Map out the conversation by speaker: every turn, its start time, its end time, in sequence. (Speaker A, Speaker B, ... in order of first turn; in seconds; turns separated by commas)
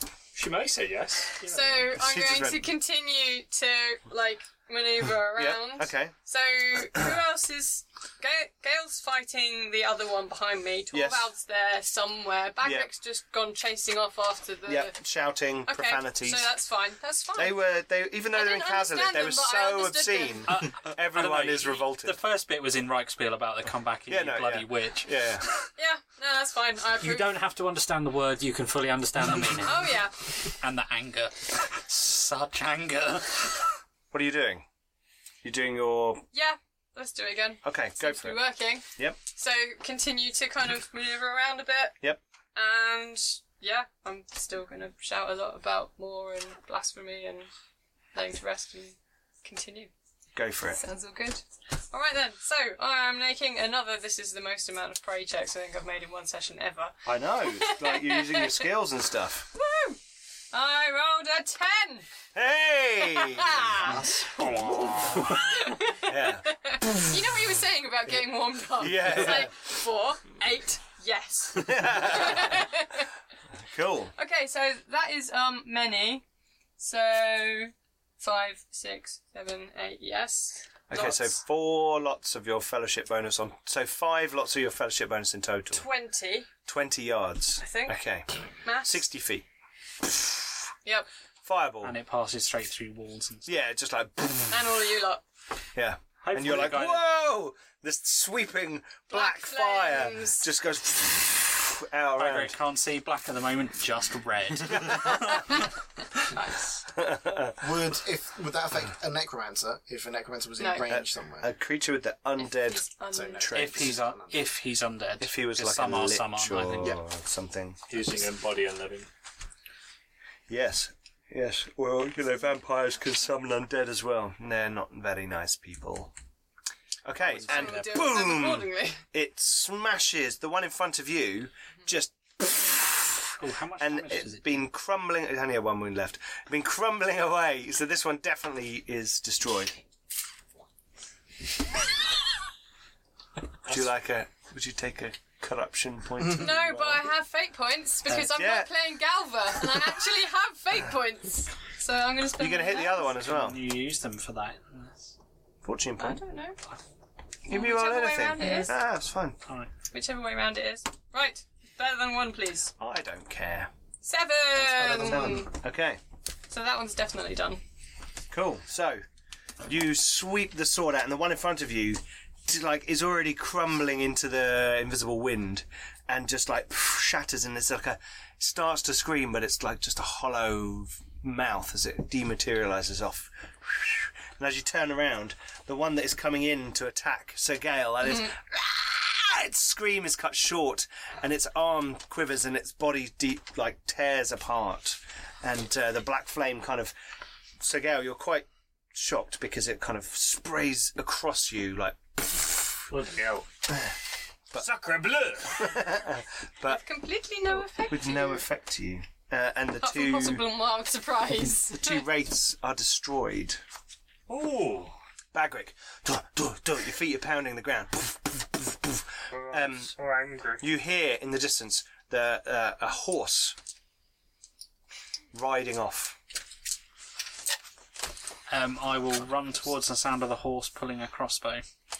Speaker A: 0.3-1.9, Speaker B: 1.5-15.0, Speaker C: 1.9-2.7, Speaker C: 5.3-6.1, Speaker C: 10.9-11.3, Speaker C: 12.6-12.9, Speaker C: 14.7-16.5, Speaker B: 15.7-17.6, Speaker C: 17.4-22.2, Speaker B: 18.3-20.5, Speaker D: 20.5-25.6, Speaker C: 24.1-25.5, Speaker B: 25.8-27.4, Speaker E: 27.0-29.8, Speaker B: 29.6-30.1, Speaker D: 30.6-33.7, Speaker C: 34.1-34.6, Speaker C: 35.4-36.2, Speaker B: 36.3-42.0, Speaker C: 37.6-38.4, Speaker B: 42.5-47.5, Speaker B: 48.1-49.9, Speaker C: 50.3-50.8, Speaker B: 50.7-58.7, Speaker C: 57.0-59.5, Speaker B: 59.5-60.0, Speaker B: 60.5-62.1, Speaker C: 62.3-63.8, Speaker B: 63.0-73.1, Speaker F: 63.8-65.2, Speaker D: 64.3-65.3, Speaker C: 65.0-65.4, Speaker C: 66.0-66.5, Speaker C: 68.8-69.5, Speaker C: 71.5-72.7, Speaker C: 73.6-74.1, Speaker B: 74.2-76.2, Speaker B: 76.8-81.4, Speaker C: 80.9-85.8, Speaker B: 85.7-86.5, Speaker C: 86.7-89.5, Speaker B: 87.6-88.0, Speaker B: 88.6-89.0, Speaker C: 90.0-90.5, Speaker C: 91.4-92.0, Speaker D: 91.8-93.6, Speaker C: 93.5-94.8, Speaker B: 94.5-95.2, Speaker C: 95.8-102.5, Speaker D: 96.2-97.0, Speaker B: 99.1-100.5, Speaker D: 102.2-105.6, Speaker C: 104.7-105.2, Speaker B: 106.2-106.8, Speaker C: 106.9-107.6, Speaker F: 107.6-111.5, Speaker B: 110.6-110.9, Speaker C: 110.9-112.8, Speaker B: 112.4-113.5, Speaker F: 113.1-114.4, Speaker C: 113.3-114.0, Speaker D: 113.5-117.0, Speaker C: 115.2-117.8, Speaker A: 117.9-119.1, Speaker C: 120.5-126.1, Speaker C: 127.0-139.8, Speaker D: 127.2-127.9, Speaker B: 127.4-129.0, Speaker D: 133.4-134.5, Speaker C: 143.7-147.1, Speaker B: 146.2-153.1, Speaker C: 148.1-148.7, Speaker C: 152.4-153.6, Speaker D: 153.2-155.1, Speaker C: 155.6-156.2, Speaker B: 156.0-156.6, Speaker C: 157.4-159.4, Speaker B: 157.5-158.7, Speaker D: 159.4-159.7, Speaker B: 159.9-162.7, Speaker C: 162.8-163.7, Speaker B: 164.0-165.5, Speaker F: 164.5-165.5, Speaker C: 165.0-166.0, Speaker B: 166.5-167.6, Speaker C: 168.3-169.0, Speaker C: 169.6-196.9, Speaker C: 197.6-202.9, Speaker A: 202.9-203.5, Speaker C: 203.7-203.9, Speaker A: 204.6-205.8, Speaker C: 205.5-206.8, Speaker B: 206.7-208.4, Speaker C: 207.9-210.4, Speaker B: 209.8-212.0, Speaker C: 211.8-213.6, Speaker A: 214.3-214.9, Speaker C: 215.3-219.9, Speaker A: 219.3-220.6, Speaker C: 220.6-223.6, Speaker C: 225.3-226.2, Speaker D: 228.5-231.6